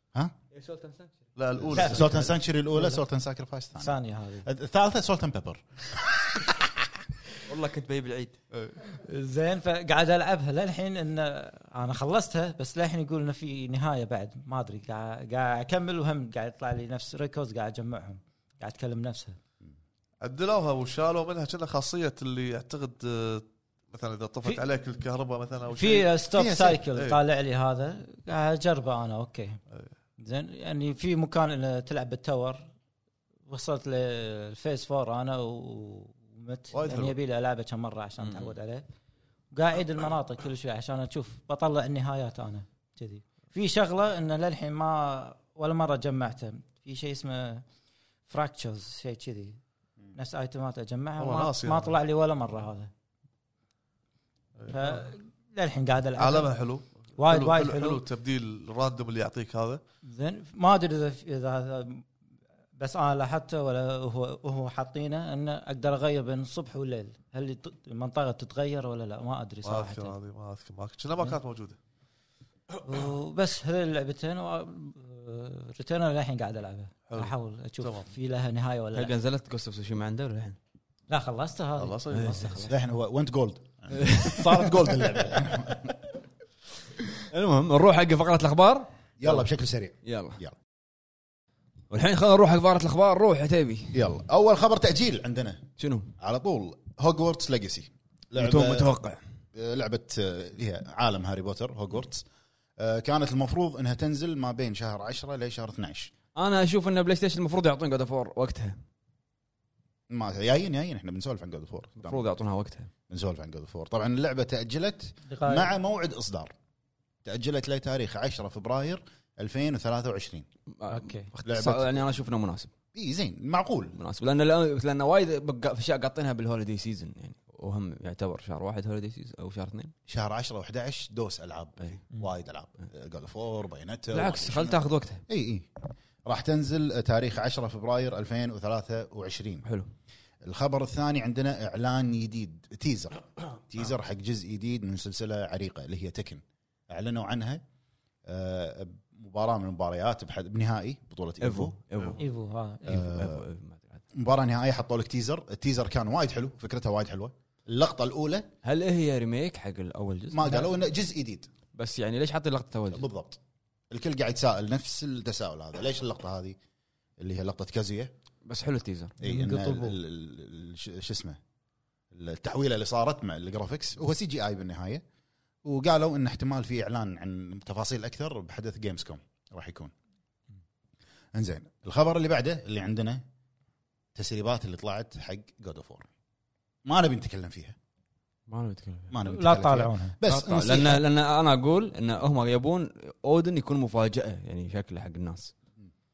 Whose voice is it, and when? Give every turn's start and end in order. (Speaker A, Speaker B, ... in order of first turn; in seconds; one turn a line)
Speaker A: 0.5-1.2
Speaker B: 1.4-2.3
Speaker C: 1.7-6.8
Speaker D: 1.7-3.0
Speaker D: 3.8-4.5
Speaker A: 7.5-8.3
Speaker B: 8.5-8.8
Speaker D: 8.8-19.4
Speaker B: 20.2-26.2
Speaker D: 25.7-29.6
Speaker C: 26.3-26.8
Speaker B: 26.9-27.2
Speaker D: 30.2-32.7
Speaker D: 33.5-38.8
Speaker B: 36.7-37.1
Speaker A: 38.2-38.5
Speaker D: 39.5-47.6
Speaker D: 48.3-49.6
Speaker D: 50.1-52.9
Speaker B: 51.2-51.9
Speaker B: 54.6-55.1
Speaker D: 54.7-56.5
Speaker B: 56.2-59.8
Speaker D: 57.2-58.0
Speaker D: 60.0-62.0
Speaker D: 62.8-70.1
Speaker B: 69.6-71.8
Speaker D: 72.8-79.1
Speaker B: 77.1-78.2
Speaker A: 78.9-80.5
Speaker D: 81.1-82.8
Speaker B: 81.8-82.5
Speaker A: 82.1-82.7
Speaker C: 82.6-86.0
Speaker A: 83.9-84.9
Speaker A: 87.3-89.4
Speaker C: 89.2-90.5
Speaker A: 90.0-90.4
Speaker A: 91.9-94.0
Speaker C: 93.9-95.6
Speaker A: 95.8-96.2
Speaker C: 96.2-98.9
Speaker A: 98.3-99.2
Speaker C: 99.5-102.2
Speaker C: 102.8-106.1
Speaker A: 106.3-108.8
Speaker C: 110.1-112.2
Speaker A: 112.0-112.9
Speaker C: 113.1-116.5
Speaker D: 115.3-115.7
Speaker C: 117.2-120.5
Speaker A: 120.7-122.7
Speaker D: 120.9-121.3
Speaker C: 121.4-122.0
Speaker C: 122.9-124.0
Speaker A: 124.0-129.9
Speaker C: 130.1-139.6
Speaker A: 134.1-135.2
Speaker C: 140.4-147.6
Speaker C: 148.2-151.8
Speaker A: 151.4-152.2
Speaker B: 151.9-152.2
Speaker D: 152.2-153.1
Speaker A: 152.8-154.0
Speaker C: 152.8-153.4
Speaker C: 154.1-158.5
Speaker A: 158.6-160.4
Speaker C: 160.3-161.5
Speaker A: 161.7-163.1
Speaker C: 162.9-163.4
Speaker C: 163.9-166.6
Speaker C: 167.2-168.1
Speaker A: 168.4-169.2
Speaker C: 169.2-171.4
Speaker D: 169.2-170.0
Speaker C: 172.1-175.0
Speaker C: 175.6-179.9
Speaker C: 181.3-183.2
Speaker C: 184.1-186.1
Speaker C: 186.8-187.8
Speaker A: 188.5-189.1
Speaker C: 189.1-191.0
Speaker D: 189.2-190.2
Speaker A: 190.2-195.5